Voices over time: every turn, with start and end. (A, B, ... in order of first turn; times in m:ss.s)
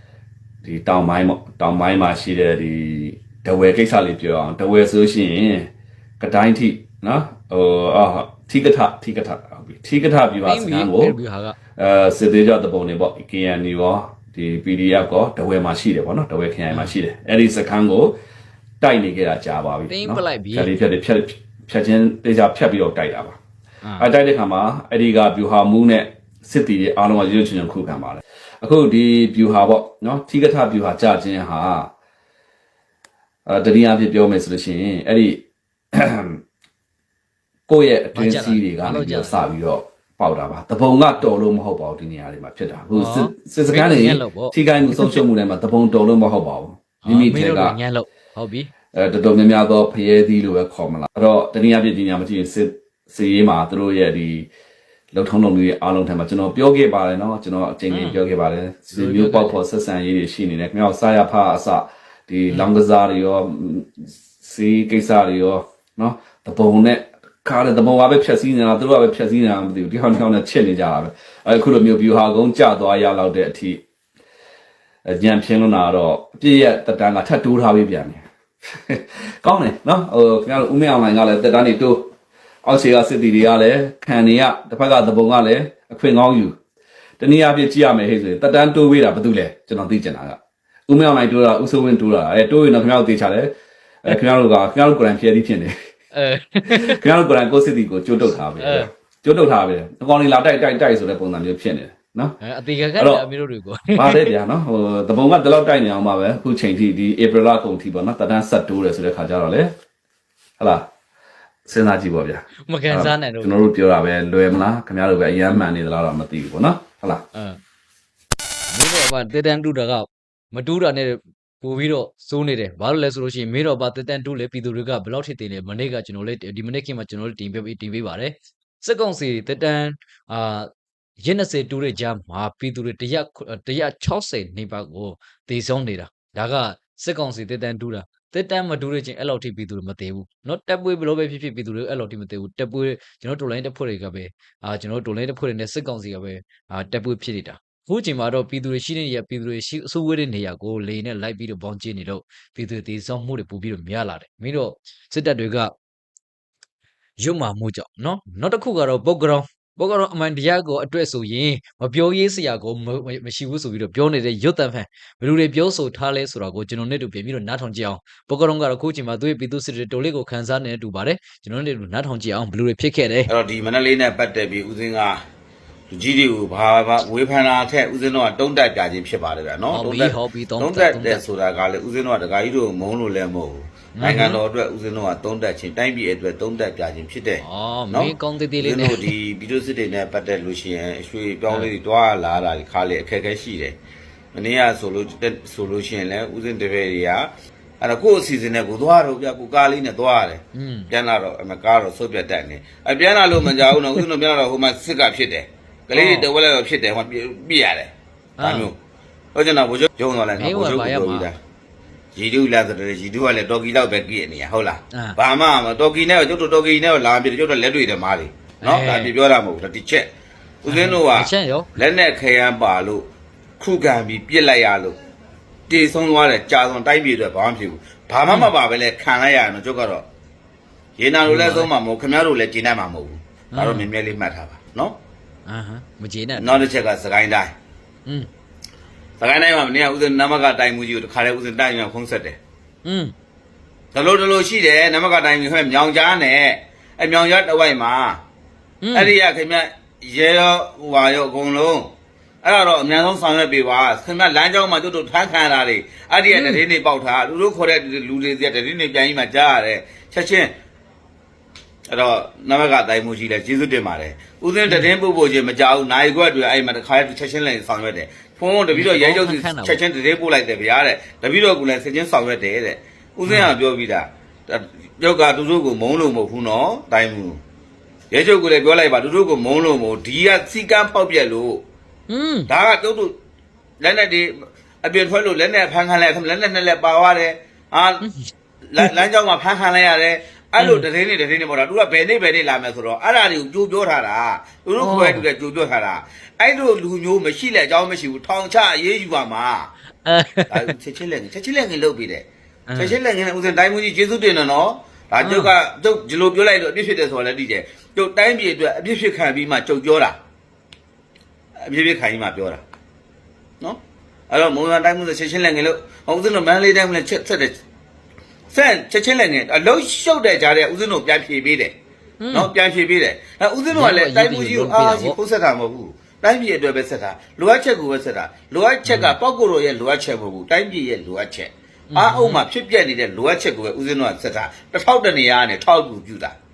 0:00.6-0:11.2 A
0:10.4-0:11.6 B
0:11.8-0:18.2 A
0:18.8-0:23.4 A
0:19.9-0:20.7 B
0:24.0-0:31.9 A
0:33.5-0:36.4 A
0:37.7-0:47.8 A
0:38.1-0:39.4 B
0:42.9-0:45.2 B
0:47.0-0:48.7 B
0:48.9-0:54.5 A
0:55.1-1:13.8 A
0:57.9-0:58.2 B
0:58.9-0:59.6 B
1:15.0-1:22.1 A
1:22.6-1:26.6 A
1:27.2-1:35.7 A
1:36.1-1:37.0 B
1:36.9-1:42.4 A
1:38.6-1:38.9 B
1:42.4-1:44.3 B
1:43.0-1:43.3 A
1:43.9-1:49.7 A
1:50.6-1:50.8 A
1:51.6-1:57.2 A
1:52.7-1:53.6 B
1:57.3-1:57.6 B
1:58.7-2:10.7 B
2:11.2-2:35.7 B
2:37.2-2:53.3 B
2:53.3-2:55.2 C
2:55.9-3:13.8 C
2:59.7-3:01.2 B
3:04.0-3:04.4 B
3:07.4-3:09.1 B
3:14.3-3:17.3 C
3:17.8-3:28.8 C
3:20.5-3:20.9 B
3:23.4-3:24.0 B
3:25.9-3:26.3 B
3:28.4-3:28.7 B
3:29.3-3:31.4 C
3:30.4-3:31.3 B
3:32.1-3:40.1 C
3:38.6-3:39.1 B
3:40.6-3:43.0 C
3:40.7-3:41.7 B
3:43.6-3:45.0 C
3:45.7-3:50.0 C
3:51.0-3:55.0 C
3:51.2-3:51.7 B
3:53.5-3:53.9 B
3:55.4-3:56.6 B
3:56.4-3:57.5 C
3:59.2-4:02.4 C
4:02.8-4:03.1 B
4:03.9-4:08.2 C
4:08.8-4:09.1 B
4:08.9-4:11.9 C
4:12.4-4:20.5 C
4:16.3-4:16.6 B
4:21.9-4:37.4 C
4:28.7-4:29.8 B
4:33.3-4:33.5 B
4:38.1-4:41.6 C
4:42.1-4:42.5 B
4:42.5-4:43.1 C
4:43.8-4:48.0 C
4:48.0-4:49.0 B
4:48.7-4:59.7 C
4:50.6-4:50.9 B
4:54.8-4:55.2 B
5:00.0-5:00.7 B
5:00.5-5:10.2 C
5:02.7-5:03.0 B
5:05.2-5:05.5 B
5:11.6-5:12.6 C
5:14.3-5:17.6 C
5:18.5-5:21.7 C
5:22.2-5:22.5 B
5:22.3-5:36.4 C
5:23.7-5:25.2 B
5:28.8-5:29.2 B
5:31.9-5:32.4 B